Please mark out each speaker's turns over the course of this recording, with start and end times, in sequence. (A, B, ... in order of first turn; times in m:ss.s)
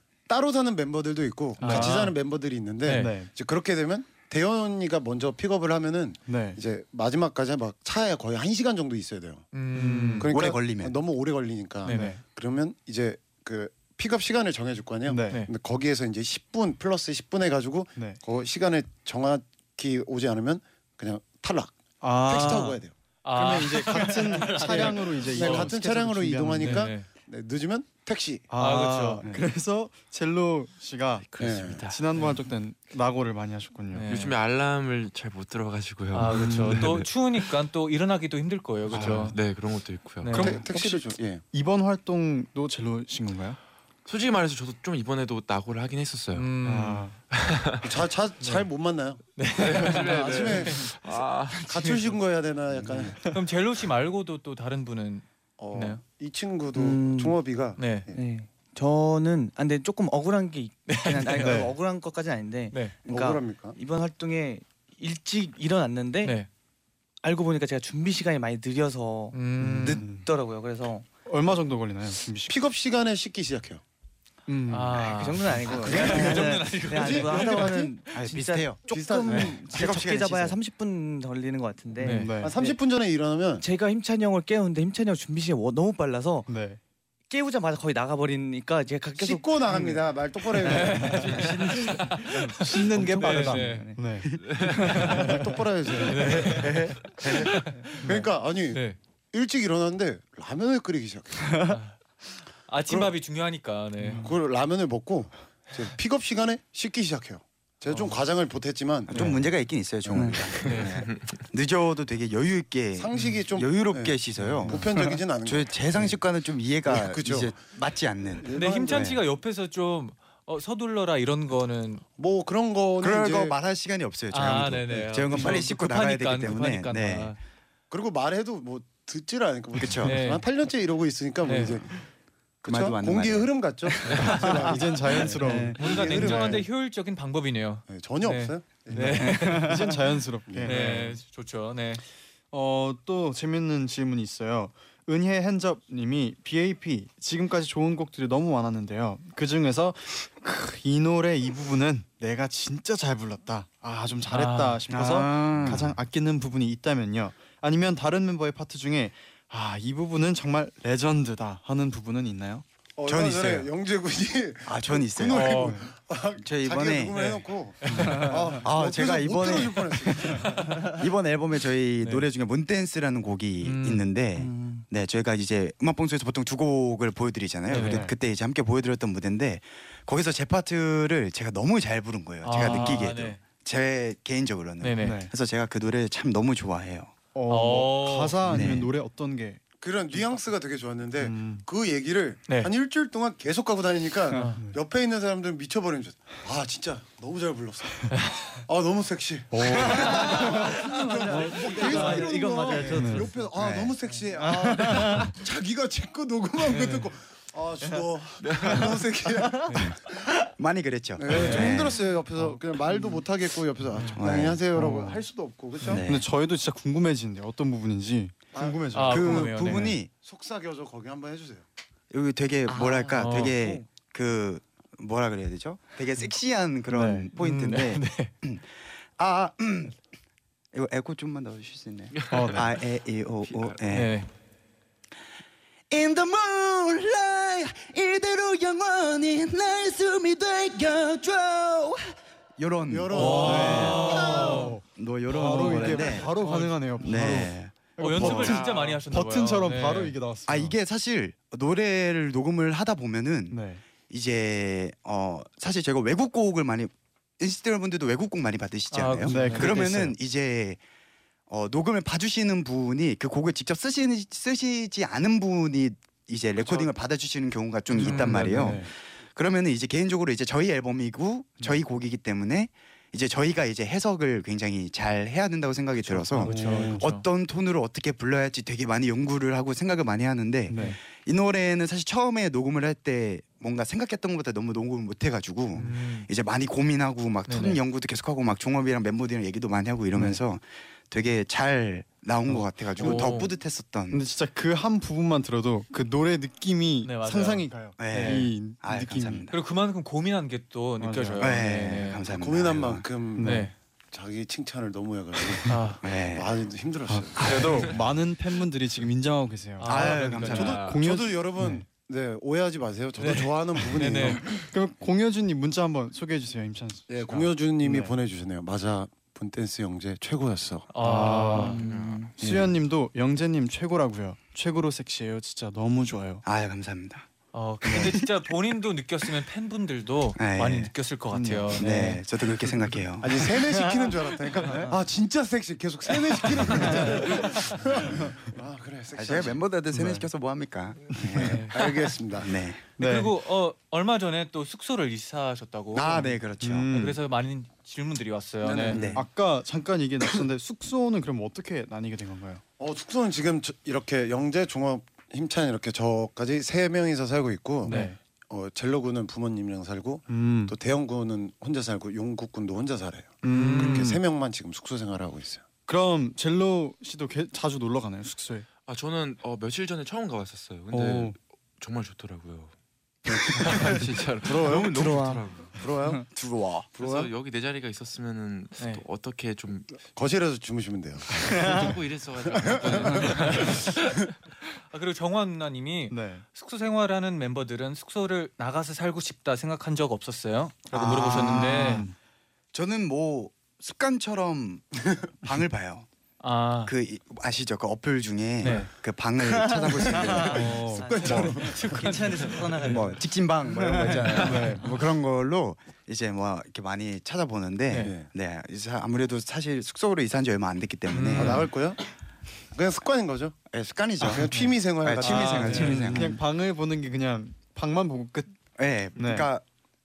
0:00.3-0:09.5 A
0:01.6-0:02.1 B
0:01.6-0:02.1 C
0:02.8-0:03.2 C
0:02.9-0:03.3 B
0:06.3-0:06.6 B
0:09.5-0:10.3 C
0:09.7-0:10.3 B
0:10.2-0:22.9 A
0:10.3-0:11.0 D
0:11.8-0:12.2 C
0:11.9-0:12.2 B
0:15.1-0:15.4 B
0:18.0-0:18.2 B
0:22.0-0:22.7 B
0:22.3-0:25.8 C
0:23.3-0:26.9 B
0:24.6-0:28.5 A
0:26.6-0:27.1 C
0:28.5-0:31.2 B
0:28.6-0:29.2 C
0:31.3-0:32.3 E
0:31.4-0:31.8 A
0:31.8-0:34.1 B
0:33.9-0:34.4 C
0:34.0-0:37.5 E
0:36.1-0:39.4 C
0:36.2-0:37.0 B
0:38.9-0:39.3 B
0:38.9-0:40.4 E
0:40.2-0:40.6 C
0:40.3-0:43.6 B
0:40.4-0:41.4 A
0:44.0-0:46.5 E
0:46.3-0:47.1 C
0:46.6-0:47.1 B
0:47.3-0:47.8 E
0:47.8-0:50.9 A
0:48.4-0:48.7 C
0:49.3-0:50.9 C
0:49.6-0:52.1 E
0:51.6-0:53.3 A
0:53.2-0:56.0 C
0:55.6-0:58.1 A
0:56.7-0:57.4 F
0:57.8-0:58.1 C
0:58.1-1:06.4 F
1:00.8-1:01.6 C
1:01.4-1:01.7 B
1:02.7-1:03.0 C
1:03.0-1:03.8 A
1:06.2-1:06.5 C
1:07.2-1:09.4 F
1:09.3-1:10.1 C
1:09.6-1:10.2 B
1:10.0-1:11.0 F
1:11.2-1:12.5 B
1:12.5-1:13.8 A
1:14.5-1:15.2 B
1:14.7-1:18.2 C
1:15.0-1:22.8 F
1:15.7-1:18.0 A
1:15.8-1:16.4 D
1:18.1-1:20.6 D
1:18.8-1:19.7 A
1:19.3-1:19.6 C
1:22.0-1:22.4 C
1:22.0-1:22.5 B
1:22.4-1:23.6 A
1:23.6-1:26.5 F
1:26.5-1:26.8 B
1:27.3-1:30.0 F
1:29.2-1:31.5 A
1:30.6-1:34.0 C
1:30.6-1:35.2 F
1:32.5-1:34.3 B
1:34.5-1:34.7 E
1:34.9-1:35.3 C
1:34.9-1:35.5 B
1:35.0-1:36.6 A
1:36.0-1:39.0 C
1:36.6-1:36.9 F
1:38.0-1:41.6 A
1:41.7-1:41.9 C
1:42.7-1:44.3 C
1:44.2-1:50.7 A
1:49.1-1:59.2 D
1:50.1-1:50.6 F
1:50.6-1:51.0 C
1:53.0-1:56.2 A
1:56.8-1:57.6 A
1:58.4-1:59.2 A
1:58.5-2:02.0 C
2:02.2-2:03.6 A
2:03.0-2:07.3 D
2:04.3-2:07.4 C
2:07.9-2:12.0 A
2:09.7-2:10.2 D
2:10.0-2:10.4 C
2:11.4-2:11.9 C
2:12.6-2:16.7 A
2:12.6-2:14.5 D
2:14.2-2:16.6 F
2:14.6-2:16.6 B
2:15.7-2:19.9 C
2:17.9-2:19.5 A
2:18.9-2:21.2 B
2:20.5-2:21.0 A
2:20.6-2:22.0 C
2:22.5-2:42.6 B
2:34.3-2:34.8 C
2:34.9-2:36.0 D
2:43.0-2:50.6 A
2:43.0-2:43.7 D
2:44.6-2:45.7 D
2:45.3-2:45.8 C
2:46.4-2:47.4 D
2:47.1-2:47.4 C
2:47.9-3:07.1 D
2:50.5-2:50.8 C
2:52.0-2:52.3 C
2:53.6-2:54.1 C
2:54.4-2:54.8 F
2:57.7-2:58.1 B
2:57.7-2:58.1 C
3:02.4-3:03.4 C
3:04.8-3:05.2 C
3:05.0-3:05.3 B
3:07.3-3:09.6 B
3:07.5-3:08.7 C
3:08.4-3:08.9 D
3:09.8-3:18.1 A
3:11.2-3:11.6 B
3:12.5-3:12.7 C
3:14.3-3:14.6 C
3:14.4-3:14.7 B
3:18.1-3:18.5 C
3:18.7-3:30.1 A
3:19.5-3:20.0 B
3:19.9-3:25.4 F
3:21.3-3:21.6 B
3:21.8-3:22.9 C
3:22.8-3:23.3 B
3:26.7-3:27.1 C
3:28.4-3:28.9 E
3:29.6-3:29.9 C
3:30.6-3:32.0 D
3:31.2-3:36.0 A
3:31.3-3:31.9 C
3:34.1-3:34.6 D
3:34.7-3:35.2 B
3:35.8-3:36.2 D
3:35.8-3:39.9 B
3:38.5-3:38.9 A
3:38.9-3:40.0 C
3:39.1-3:40.1 D
3:40.1-3:41.6 A
3:42.1-3:50.0 D
3:42.7-3:43.8 F
3:43.2-3:43.6 C
3:46.9-3:47.3 B
3:47.3-3:48.3 C
3:50.7-3:54.1 D
3:52.2-3:52.6 E
3:52.3-3:52.6 B
3:53.4-3:53.8 E
3:53.9-3:54.3 C
3:55.9-4:06.3 D
4:02.9-4:04.7 A
4:03.1-4:04.8 C
4:03.1-4:10.8 B
4:05.4-4:06.9 C
4:07.0-4:08.5 D
4:08.0-4:10.2 C
4:08.2-4:09.0 E
4:10.5-4:20.8 D
4:13.5-4:13.8 B
4:18.9-4:20.0 C
4:19.2-4:20.1 B
4:21.5-4:54.2 D
4:26.6-4:26.9 E
4:27.9-4:28.8 C
4:27.9-4:28.9 B
4:36.0-4:37.2 C
4:36.4-4:37.0 B
4:40.7-4:41.0 B
4:40.7-4:41.0 C
4:45.8-4:46.3 C
4:47.4-4:47.8 C
4:50.1-4:50.4 B
4:52.5-4:53.1 B
4:53.0-4:53.5 C
4:54.1-4:59.5 B
4:57.0-4:58.5 C
4:58.0-4:59.6 D
4:59.5-5:02.2 C
5:01.0-5:01.6 B
5:01.4-5:03.0 D
5:02.3-5:07.9 A
5:03.4-5:03.7 B
5:03.4-5:03.7 C
5:05.6-5:06.1 C
5:06.0-5:06.6 D
5:07.1-5:11.8 B
5:09.8-5:10.8 C
5:09.8-5:10.8 D
5:10.3-5:11.0 E
5:10.5-5:14.5 A
5:13.2-5:14.5 C
5:14.5-5:18.1 B
5:17.1-5:20.9 A
5:20.9-5:21.8 C
5:21.0-5:21.8 B
5:21.5-5:22.3 F
5:21.8-5:22.2 D
5:22.4-5:26.4 B
5:22.4-5:22.7 A
5:26.4-5:27.3 D
5:27.5-5:32.2 C
5:27.8-5:28.3 D
5:30.4-5:31.0 D
5:31.3-5:32.2 B
5:31.7-5:33.6 D
5:32.7-5:33.0 B
5:33.2-5:39.6 A
5:37.0-5:37.5 C
5:39.1-5:42.9 D
5:39.9-5:40.3 B
5:41.3-5:41.7 C
5:41.7-5:42.5 A
5:43.0-5:46.4 C
5:43.0-5:43.4 B
5:45.9-5:47.0 D
5:46.6-5:47.2 B
5:46.9-5:49.1 C
5:48.7-5:49.0 A
5:48.9-5:49.2 D
5:49.0-5:52.6 B
5:52.8-6:05.6 A
5:57.8-5:58.2 B
5:57.9-5:58.1 C
6:00.3-6:00.7 B
6:03.4-6:04.2 B
6:03.4-6:04.2 C
6:05.9-6:08.6 B
6:08.8-6:12.7 E
6:10.9-6:11.3 B
6:13.3-6:15.8 E
6:13.5-6:15.2 A
6:14.6-6:15.5 F
6:15.8-6:16.2 A
6:16.3-6:16.9 D
6:16.9-6:17.3 A
6:17.0-6:20.0 E
6:18.8-6:19.0 C
6:20.0-6:23.8 A
6:21.4-6:23.9 E
6:23.2-6:23.9 C
6:24.9-6:32.1 C
6:26.1-6:26.4 B
6:30.9-6:32.0 D
6:31.3-6:32.1 B
6:32.7-6:36.0 D
6:36.4-6:36.9 C
6:36.8-6:41.5 D
6:38.6-6:38.9 C
6:39.4-6:43.2 F
6:40.0-6:42.0 A
6:40.6-6:41.0 B
6:40.8-6:43.1 C
6:42.8-6:51.7 D
6:43.8-6:44.2 F
6:44.4-6:44.8 B
6:48.0-6:48.3 A
6:51.1-6:51.7 C
6:51.3-6:52.0 A
6:52.7-6:53.6 A
6:53.7-6:56.4 D
6:54.2-6:55.9 A
6:55.2-6:56.3 C
6:55.6-6:58.5 B
6:58.8-6:59.6 D
6:59.2-6:59.5 B